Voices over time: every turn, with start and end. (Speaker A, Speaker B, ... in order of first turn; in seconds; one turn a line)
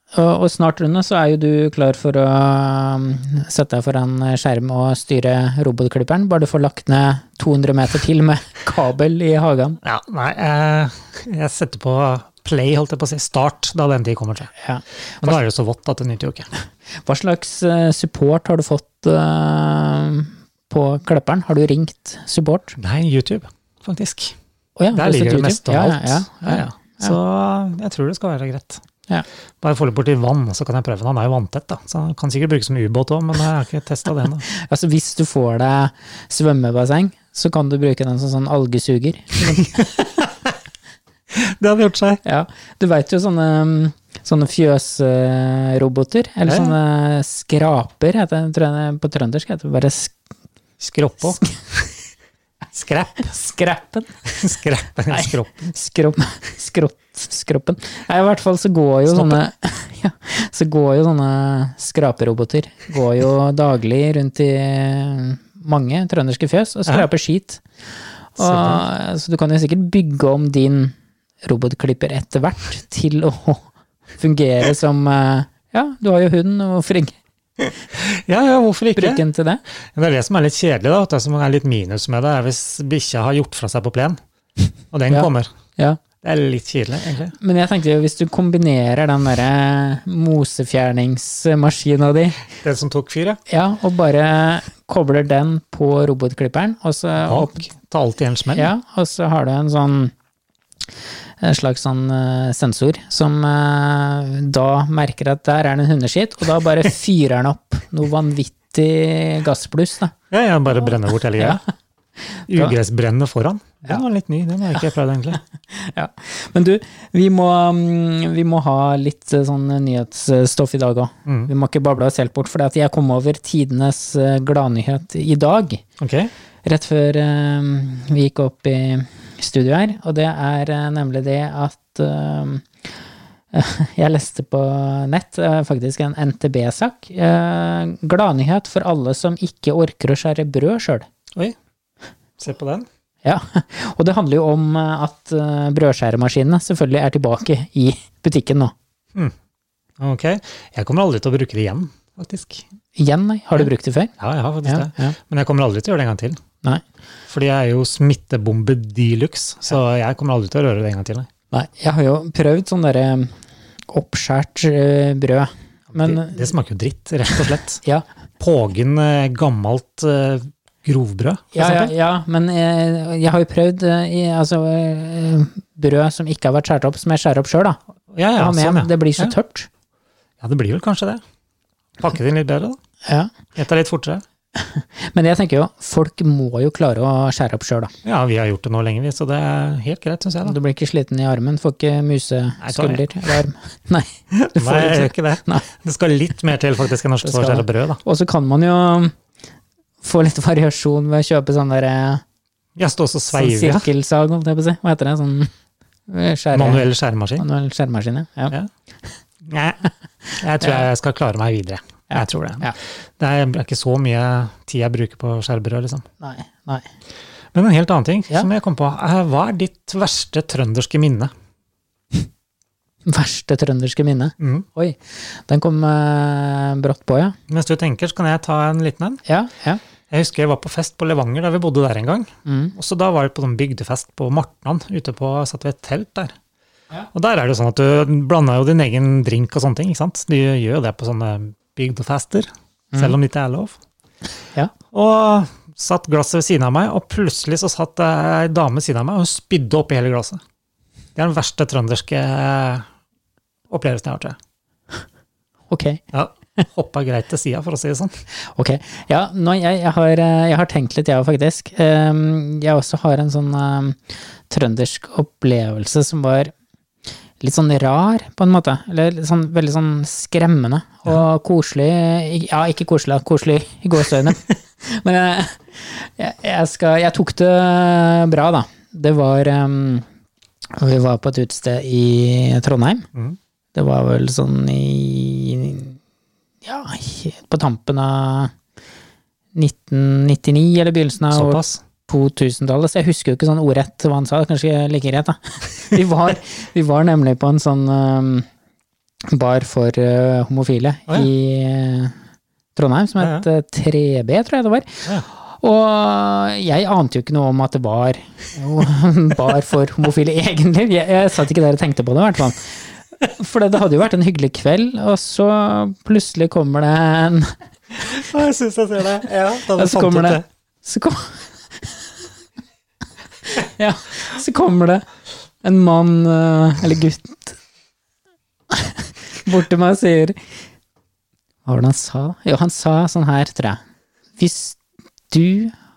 Speaker A: 0.1-9.8
Speaker B: 9.8-14.5
Speaker A: 14.6-15.4
Speaker B: 15.2-16.5
Speaker A: 17.0-22.8
Speaker B: 22.8-24.3
Speaker A: 24.8-27.1
Speaker B: 24.9-28.8
Speaker B: 29.6-34.5
Speaker A: 34.5-40.0
Speaker B: 39.8-40.3
Speaker B: 41.3-42.2
Speaker A: 42.2-50.1
Speaker B: 46.5-46.8
Speaker B: 50.8-51.5
Speaker B: 52.7-53.3
Speaker A: 53.3-54.2
Speaker B: 54.3-55.7
Speaker A: 55.1-67.6
Speaker B: 59.1-59.4
Speaker A: 68.3-73.7
Speaker B: 68.4-68.8
Speaker A: 74.2-77.2
Speaker B: 77.9-79.2
Speaker A: 79.0-79.6
Speaker B: 79.9-84.2
Speaker B: 84.9-85.5
Speaker A: 85.1-86.0
Speaker B: 86.2-87.3
Speaker A: 87.4-92.4
Speaker B: 92.6-93.4
Speaker A: 93.5-97.7
Speaker B: 97.2-98.7
Speaker A: 98.5-100.1
Speaker A: 101.4-110.1
Speaker B: 110.3-111.6
Speaker A: 111.4-111.6
Speaker B: 112.5-115.4
Speaker A: 115.7-125.8
Speaker B: 126.0-126.3
Speaker A: 126.6-132.7
Speaker A: 133.5-141.1
Speaker B: 142.4-142.8
Speaker A: 143.2-148.7
Speaker B: 150.0-152.6
Speaker A: 152.9-154.1
Speaker B: 154.2-156.4
Speaker A: 154.6-155.2
Speaker B: 157.3-161.3
Speaker A: 161.5-163.3
Speaker A: 163.9-166.5
Speaker B: 165.9-167.8
Speaker B: 168.4-171.9
Speaker A: 171.5-177.8
Speaker B: 178.1-179.3
Speaker A: 178.4-179.7
Speaker B: 180.4-181.2
Speaker B: 182.0-182.8
Speaker B: 183.6-184.2
Speaker A: 184.5-187.9
Speaker B: 188.0-190.6
Speaker A: 190.4-195.6
Speaker B: 192.6-193.1
Speaker B: 194.3-198.0
Speaker A: 197.2-199.1
Speaker A: 200.0-202.2
Speaker B: 202.8-203.9
Speaker A: 203.3-205.5
Speaker A: 206.1-206.8
Speaker B: 206.5-207.4
Speaker A: 207.4-208.6
Speaker B: 209.4-216.0
Speaker A: 212.1-212.8
Speaker A: 216.2-216.8
Speaker B: 217.5-221.3
Speaker A: 223.1-227.3
Speaker B: 224.4-224.7
Speaker B: 227.5-229.2
Speaker A: 229.2-229.8
Speaker B: 230.1-236.3
Speaker A: 232.4-232.7
Speaker B: 237.1-243.8
Speaker B: 244.9-250.4
Speaker B: 251.2-252.8
Speaker B: 253.7-254.4
Speaker A: 255.7-256.0
Speaker B: 256.1-258.1
Speaker A: 258.4-266.5
Speaker A: 267.4-280.1
Speaker A: 280.8-283.1
Speaker A: 283.7-286.0
Speaker A: 286.6-288.5
Speaker A: 289.5-298.5
Speaker B: 291.3-291.8
Speaker A: 299.3-302.1
Speaker A: 302.8-317.5
Speaker B: 318.0-320.4
Speaker A: 319.7-321.4
Speaker A: 323.5-325.0
Speaker A: 325.6-327.6
Speaker A: 328.7-330.4
Speaker A: 331.6-333.8
Speaker A: 334.4-335.7